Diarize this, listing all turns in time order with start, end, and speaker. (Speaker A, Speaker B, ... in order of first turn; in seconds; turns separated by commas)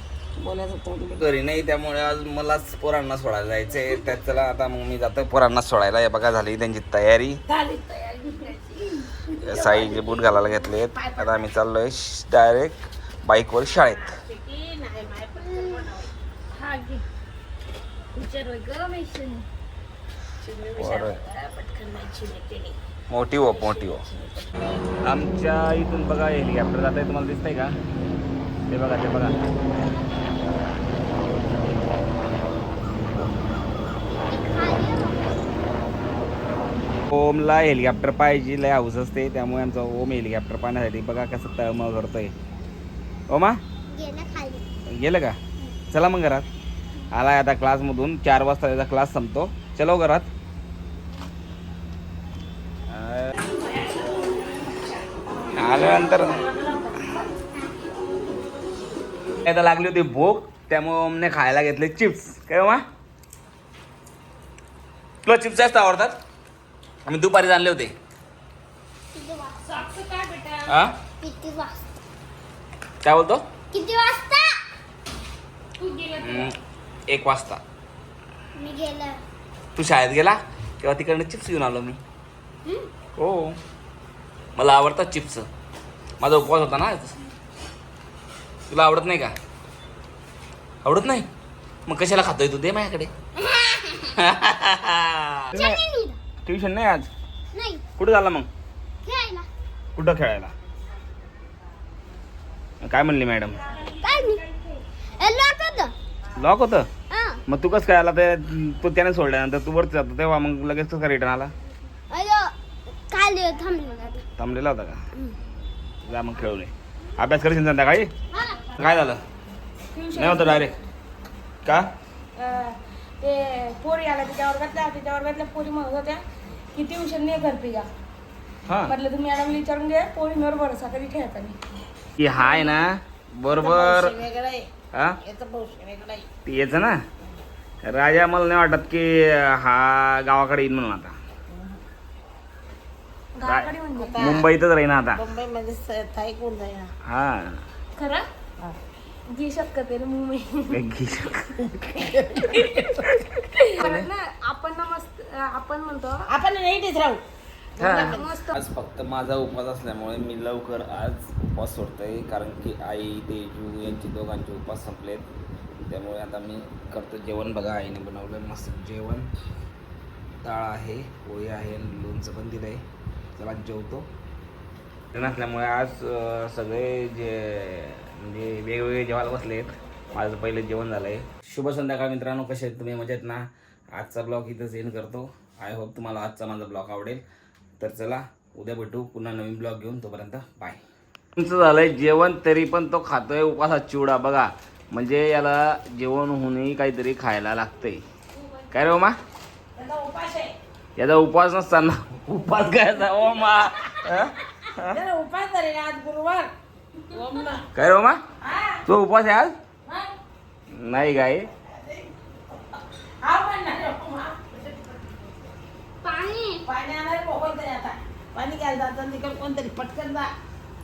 Speaker A: 0.4-1.3, Speaker B: 1.2-7.4, Speaker A: 7.5-11.5, Speaker B: 9.4-14.1, Speaker A: 13.9-16.1, Speaker C: 16.5-17.1, Speaker C: 18.1-19.5, Speaker A: 20.4-22.8, Speaker B: 20.8-21.2, Speaker B: 23.1-24.0, Speaker A: 23.5-24.5, Speaker B: 25.0-27.8, Speaker B: 28.7-29.4, Speaker D: 34.3-35.5, Speaker B: 37.1-42.3, Speaker B: 43.3-43.6, Speaker D: 43.9-44.6, Speaker B: 44.9-45.4, Speaker B: 45.9-46.5, Speaker B: 47.1-50.3, Speaker B: 52.9-53.3, Speaker B: 55.5-56.4, Speaker A: 55.8-56.5, Speaker B: 59.5-62.8, Speaker B: 65.2-66.1, Speaker B: 67.0-67.9, Speaker D: 69.1-69.6, Speaker C: 69.7-70.7, Speaker B: 70.7-71.0, Speaker D: 71.2-71.8, Speaker B: 73.0-73.4, Speaker D: 73.7-74.5, Speaker C: 75.8-76.5, Speaker B: 76.2-77.6, Speaker D: 78.5-79.2, Speaker B: 79.8-82.0, Speaker B: 83.2-83.6, Speaker B: 84.6-85.5, Speaker B: 86.2-87.2, Speaker B: 88.7-89.3, Speaker B: 90.8-91.3, Speaker B: 91.9-93.1, Speaker D: 93.4-94.1, Speaker B: 94.2-95.8, Speaker D: 95.5-96.2, Speaker B: 96.5-97.1, Speaker D: 97.5-97.8, Speaker B: 98.0-98.5, Speaker D: 99.0-99.5, Speaker B: 100.0-100.5, Speaker B: 102.8-103.6, Speaker D: 104.0-104.4, Speaker D: 105.2-105.9, Speaker B: 106.4-106.9, Speaker D: 107.1-107.4, Speaker B: 107.5-111.5, Speaker D: 112.1-112.5, Speaker D: 113.1-114.2, Speaker B: 114.4-115.0, Speaker B: 116.0-118.1, Speaker B: 118.7-119.2, Speaker C: 119.9-120.8, Speaker B: 120.1-120.8, Speaker C: 122.4-126.2, Speaker C: 126.8-127.9, Speaker B: 128.7-128.9, Speaker C: 128.9-131.6, Speaker B: 132.2-134.2, Speaker A: 132.3-132.7, Speaker A: 133.5-134.7, Speaker A: 135.2-136.3, Speaker B: 136.5-137.0, Speaker B: 137.8-141.2, Speaker C: 143.3-144.2, Speaker B: 143.4-145.2, Speaker A: 143.9-144.5, Speaker A: 145.1-146.9, Speaker B: 147.1-147.6, Speaker C: 148.0-148.3, Speaker C: 149.3-150.8, Speaker B: 150.7-151.8, Speaker A: 151.9-153.2, Speaker C: 152.5-152.8, Speaker C: 153.7-156.2, Speaker B: 153.8-154.1, Speaker A: 156.3-157.2, Speaker A: 157.8-158.3, Speaker B: 157.8-165.3, Speaker C: 157.8-158.5, Speaker B: 165.9-169.3, Speaker B: 170.4-172.8, Speaker B: 173.4-174.1, Speaker B: 175.1-187.2, Speaker B: 187.8-190.8, Speaker B: 191.4-198.0, Speaker B: 198.7-199.2, Speaker A: 199.8-200.5, Speaker B: 201.0-205.0, Speaker A: 204.9-206.5, Speaker A: 207.1-207.7, Speaker B: 207.7-208.2, Speaker A: 208.4-208.8, Speaker B: 208.8-209.5, Speaker B: 210.7-211.5, Speaker A: 211.7-212.1, Speaker A: 213.2-215.1, Speaker D: 216.0-216.6, Speaker A: 216.6-220.3